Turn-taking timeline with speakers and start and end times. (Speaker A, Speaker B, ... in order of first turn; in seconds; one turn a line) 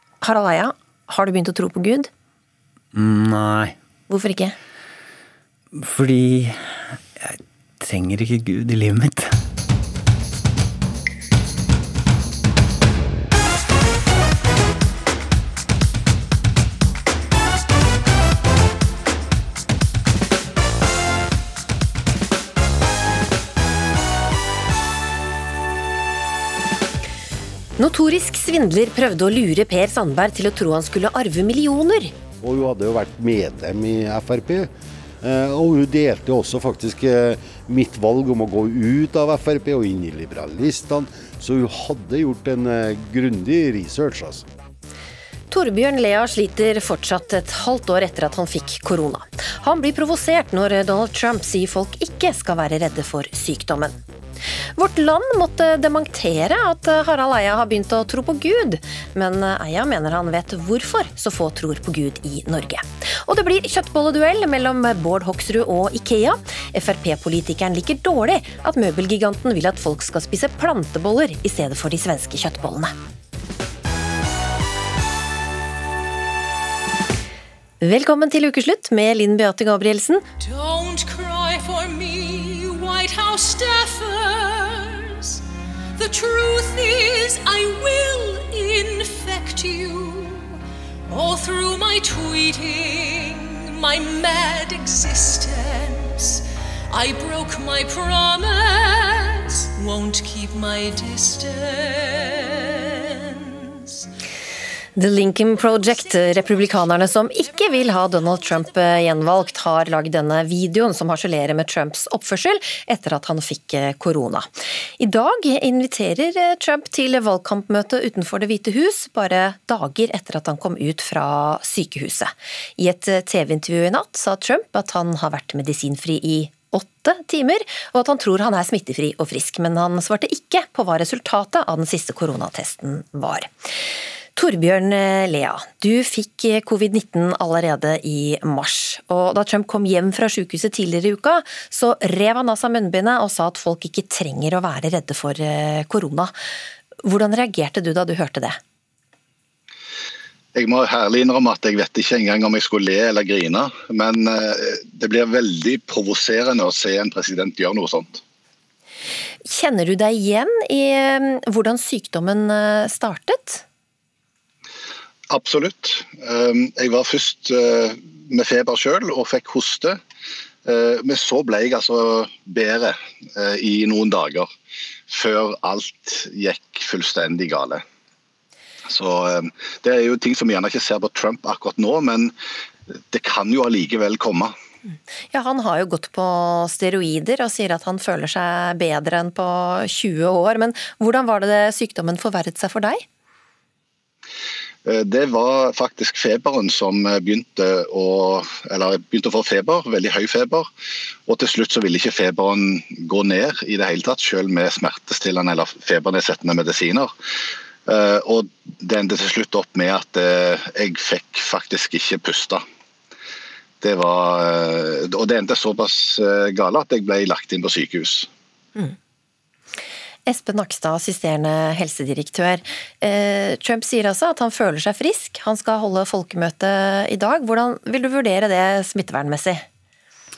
Speaker A: 0.2-2.1
Speaker B: 2.9-3.8
Speaker A: 4.1-4.5
Speaker B: 5.7-9.4
Speaker A: 27.8-32.1
Speaker C: 32.4-34.7
Speaker C: 35.2-44.5
Speaker A: 45.5-54.0
Speaker A: 54.8-72.9
Speaker A: 77.8-80.2
Speaker D: 80.4-85.4
Speaker D: 86.0-90.5
Speaker D: 91.1-104.1
Speaker A: 105.0-133.5
Speaker A: 134.3-146.3
Speaker A: 147.0-148.6
Speaker E: 150.5-158.2
Speaker A: 159.5-163.6
Speaker E: 165.3-170.0
Speaker E: 170.7-174.5
Speaker E: 175.1-177.8
Speaker E: 178.9-182.3
Speaker E: 182.9-184.5
Speaker A: 185.3-193.0
Speaker E: 194.8-200.7
Speaker E: 201.3-207.1
Speaker E: 207.9-212.6
Speaker E: 213.8-218.3
Speaker A: 220.3-229.6